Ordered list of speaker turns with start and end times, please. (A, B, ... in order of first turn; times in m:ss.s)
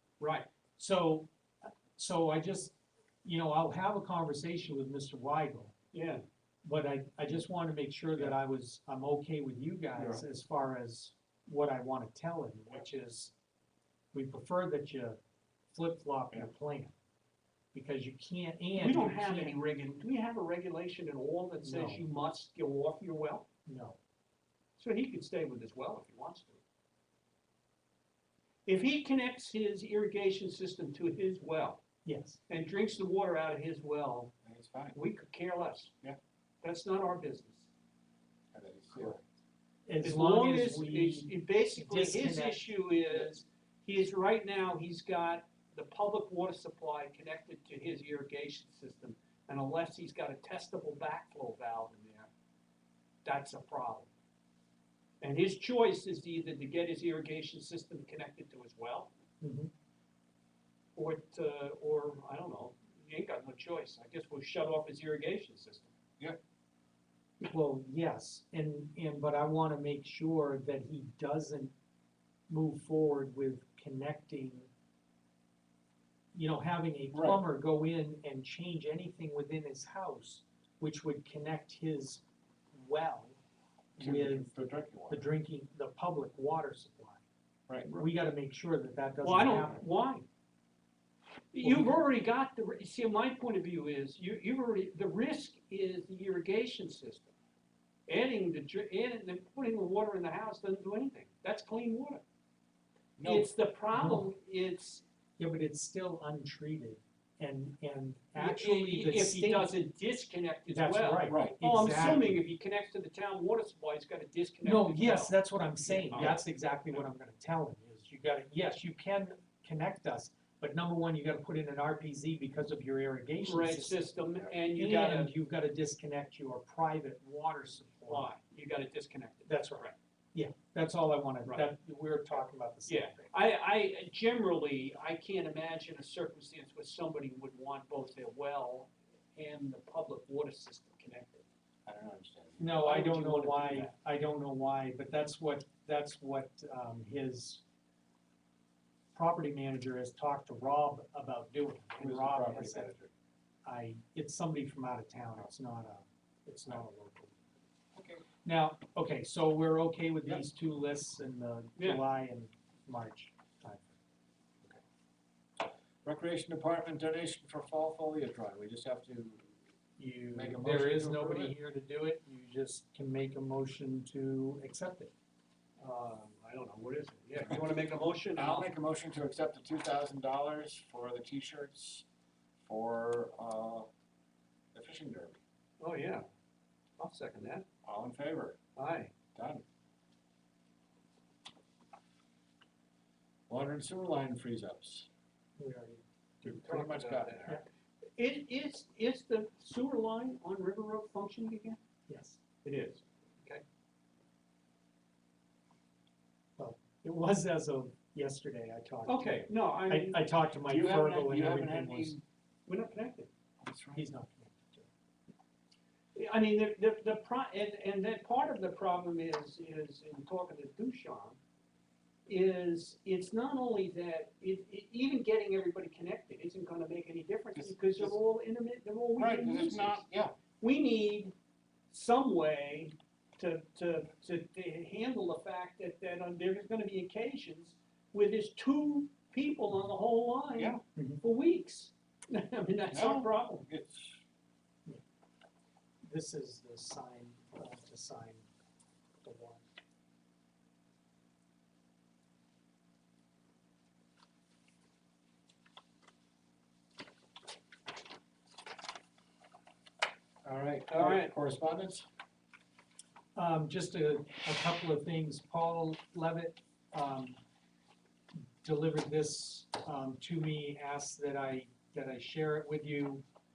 0:00.2-0:00.5 A
0:00.8-0:05.7 B
0:05.9-0:06.2 A
0:06.6-0:13.3 B
0:10.0-0:10.2 C
0:14.1-0:15.2 B
0:15.7-0:16.9 B
0:17.7-0:19.6 B
0:18.8-0:23.4 A
0:21.6-0:22.0 B
0:23.6-0:24.0 B
0:24.8-0:26.6 A
0:28.6-0:31.8 A
0:32.0-0:32.4 B
0:32.5-0:34.3 A
0:34.4-0:35.0 C
0:34.9-0:35.9 A
0:36.6-0:37.7 A
0:38.5-0:39.2 C
0:39.9-0:42.7 B
0:40.0-0:52.3 A
0:53.2-0:54.1 A
0:55.2-0:59.1 A
0:59.4-0:59.7 B
1:01.0-1:05.9 A
1:07.4-1:11.7 B
1:12.5-1:14.7 B
1:16.3-1:23.4 B
1:17.1-1:17.4 C
1:24.0-1:24.5 B
1:24.0-1:25.2 C
1:25.1-1:27.2 B
1:27.9-1:29.8 B
1:29.2-1:30.2 A
1:31.5-1:37.3 A
1:31.6-1:31.9 B
1:38.1-1:42.2 A
1:43.2-1:43.5 C
1:43.2-1:45.0 A
1:43.9-1:44.3 B
1:45.4-1:49.7 B
1:48.3-1:55.3 A
1:50.7-1:52.4 B
1:51.3-1:52.3 C
1:54.6-2:04.1 B
1:55.9-1:56.4 A
1:56.1-1:56.4 C
2:03.4-2:05.3 A
2:04.8-2:08.3 B
2:08.1-2:09.9 A
2:09.5-2:13.4 B
2:12.9-2:21.4 A
2:21.8-2:22.8 C
2:22.6-2:27.6 B
2:22.8-2:23.9 A
2:29.1-2:32.9 B
2:32.0-2:33.1 C
2:33.6-2:37.4 B
2:37.9-2:38.2 C
2:38.4-2:43.9 B
2:41.8-2:42.0 A
2:46.0-2:49.5 C
2:50.0-2:55.1 B
2:50.3-2:51.5 C
2:55.8-2:58.7 A
2:58.3-3:02.0 C
3:02.6-3:03.9 C
3:04.7-3:05.4 C
3:05.8-3:06.2 A
3:07.0-3:07.6 A
3:07.8-3:08.6 C
3:08.8-3:09.1 A
3:09.3-3:09.6 C
3:13.5-3:15.1 C
3:15.6-3:16.0 B
3:16.4-3:17.6 C
3:16.5-3:17.6 A
3:18.2-3:21.8 A
3:22.1-3:22.4 B
3:22.6-3:23.6 A
3:26.6-3:32.2 B
3:29.0-3:30.2 A
3:30.6-3:32.2 C
3:32.7-3:33.3 A
3:33.6-3:34.0 C
3:33.9-3:34.9 B
3:36.1-3:41.4 A
3:42.3-3:50.0 A
3:47.5-3:48.1 C
3:49.2-3:50.3 C
3:50.6-3:51.3 A
3:51.9-4:03.6 A
4:00.5-4:00.8 C
4:01.0-4:01.2 B
4:02.9-4:04.2 C
4:06.1-4:08.4 B
4:09.2-4:09.6 B
4:20.4-4:22.0 C
4:20.9-4:21.3 A
4:23.4-4:27.4 B
4:28.6-4:33.2 B